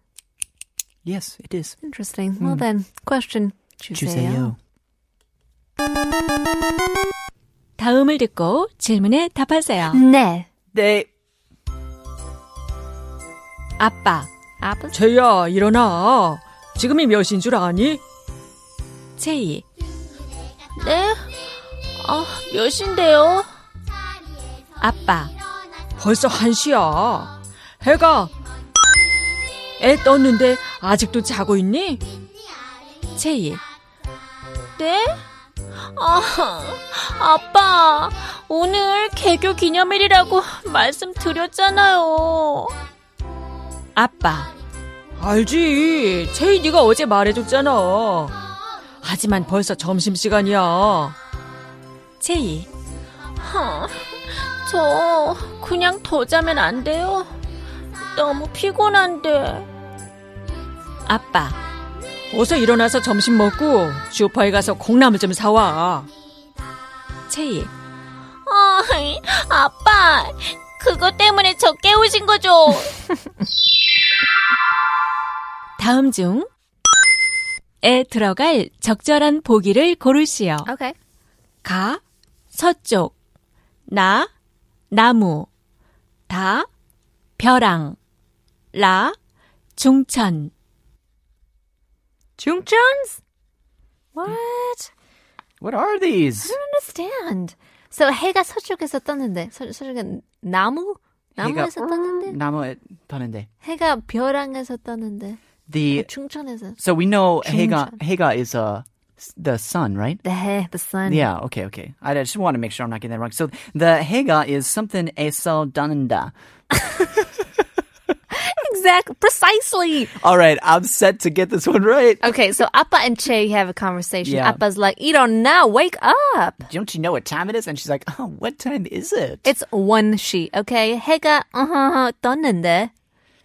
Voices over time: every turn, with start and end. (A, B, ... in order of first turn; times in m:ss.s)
0:01.0-0:01.8 A
0:01.8-0:04.5 B
0:02.4-0:02.6 A
0:03.9-0:04.6 A
0:07.8-0:10.0 C
0:09.8-0:10.5 B
0:10.7-0:11.1 A
0:13.8-0:14.3 C
0:14.6-0:15.0 B
0:14.9-0:18.0 D
0:19.2-0:19.6 C
0:20.8-0:21.2 E
0:22.0-0:23.5 E
0:24.8-0:25.3 C
0:26.0-0:28.3 D
0:29.8-0:32.0 D
0:33.2-0:33.6 C
0:34.8-0:35.2 E
0:35.9-0:42.7 E
0:43.9-0:44.5 C
0:45.2-0:48.4 D
0:49.0-0:51.2 D
0:52.2-0:52.7 C
0:53.4-0:57.3 E
0:58.1-0:59.7 E
1:01.0-1:01.6 C
1:02.3-1:06.1 D
1:07.3-1:07.7 C
1:08.4-1:12.9 E
1:15.8-1:16.5 C
1:17.8-1:20.7 C
1:20.6-1:21.0 B
1:21.6-1:22.0 C
1:22.5-1:23.1 C
1:23.9-1:24.3 C
1:24.9-1:25.5 C
1:26.3-1:26.7 C
1:27.4-1:28.0 C
1:28.7-1:29.2 C
1:29.8-1:30.5 C
1:32.4-1:33.2 B
1:34.1-1:34.9 B
1:35.6-1:36.5 A
1:36.4-1:42.4 B
1:41.4-1:43.5 A
1:43.6-1:45.4 B
1:45.7-1:46.1 A
1:45.9-1:46.8 B
1:46.8-1:50.2 A
1:47.4-1:48.0 B
1:50.2-1:51.3 B
1:51.0-1:56.3 A
1:58.3-2:00.1 B
2:00.2-2:02.2 A
2:02.2-2:06.6 B
2:04.2-2:04.6 A
2:06.6-2:09.5 A
2:09.4-2:12.9 B